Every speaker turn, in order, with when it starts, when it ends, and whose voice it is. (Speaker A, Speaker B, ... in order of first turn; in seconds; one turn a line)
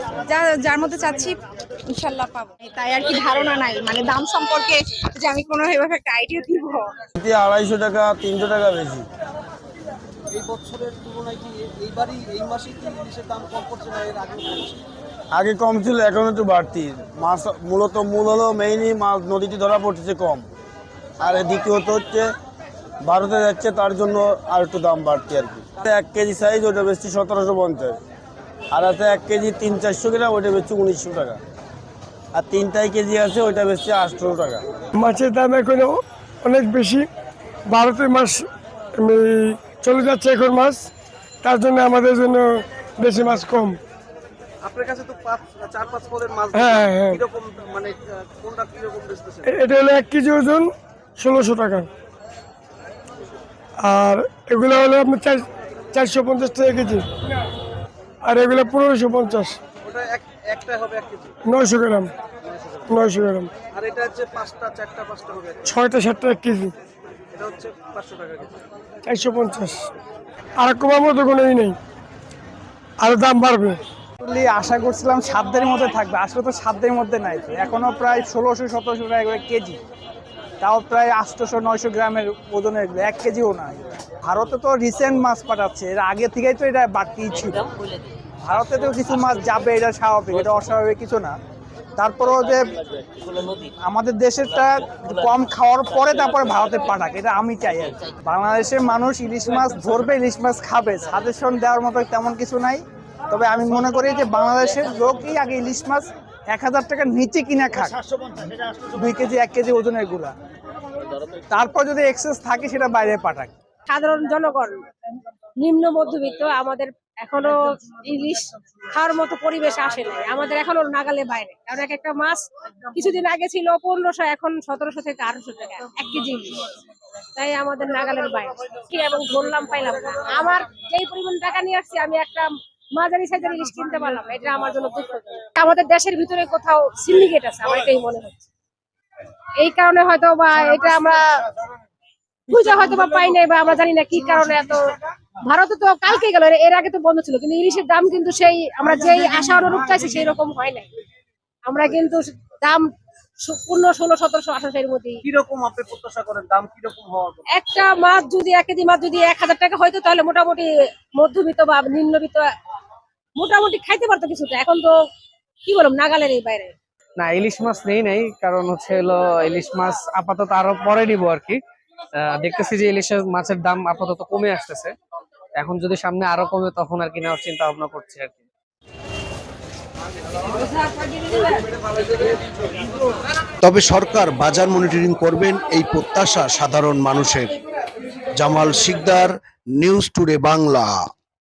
Speaker A: 0.2-1.4
Speaker A: 1.9-6.9
Speaker B: 7.2-9.0
Speaker C: 10.3-14.8
Speaker B: 15.3-20.4
Speaker B: 21.2-22.3
Speaker B: 23.0-28.0
Speaker B: 28.7-31.4
Speaker B: 32.3-34.6
Speaker D: 35.0-37.1
Speaker D: 37.7-38.5
Speaker D: 39.0-40.9
Speaker D: 41.4-43.8
Speaker C: 44.6-49.5
Speaker D: 46.5-47.2
Speaker D: 49.4-51.9
Speaker D: 53.8-57.0
Speaker D: 58.2-59.6
Speaker C: 59.8-61.4
Speaker D: 61.5-62.1
Speaker C: 62.4-63.0
Speaker D: 62.9-63.5
Speaker C: 63.7-65.6
Speaker D: 65.6-66.7
Speaker C: 67.3-68.6
Speaker D: 69.0-69.9
Speaker D: 70.6-71.8
Speaker D: 73.0-73.8
Speaker E: 74.2-79.8
Speaker E: 80.6-87.7
Speaker E: 88.4-91.3
Speaker E: 92.0-92.6
Speaker E: 93.8-108.0
Speaker E: 108.9-110.3
Speaker E: 111.5-113.5
Speaker F: 113.8-114.8
Speaker F: 115.6-126.7
Speaker F: 127.3-138.4
Speaker F: 139.6-141.2
Speaker F: 142.5-144.9
Speaker F: 145.4-150.9
Speaker F: 151.7-152.9
Speaker F: 153.4-155.2
Speaker C: 155.2-157.4
Speaker F: 157.5-162.5
Speaker F: 163.3-164.9
Speaker F: 165.6-166.7
Speaker G: 167.2-171.6
Speaker G: 172.1-174.9
Speaker G: 175.5-178.4
Speaker H: 183.6-187.5
Speaker H: 188.3-191.1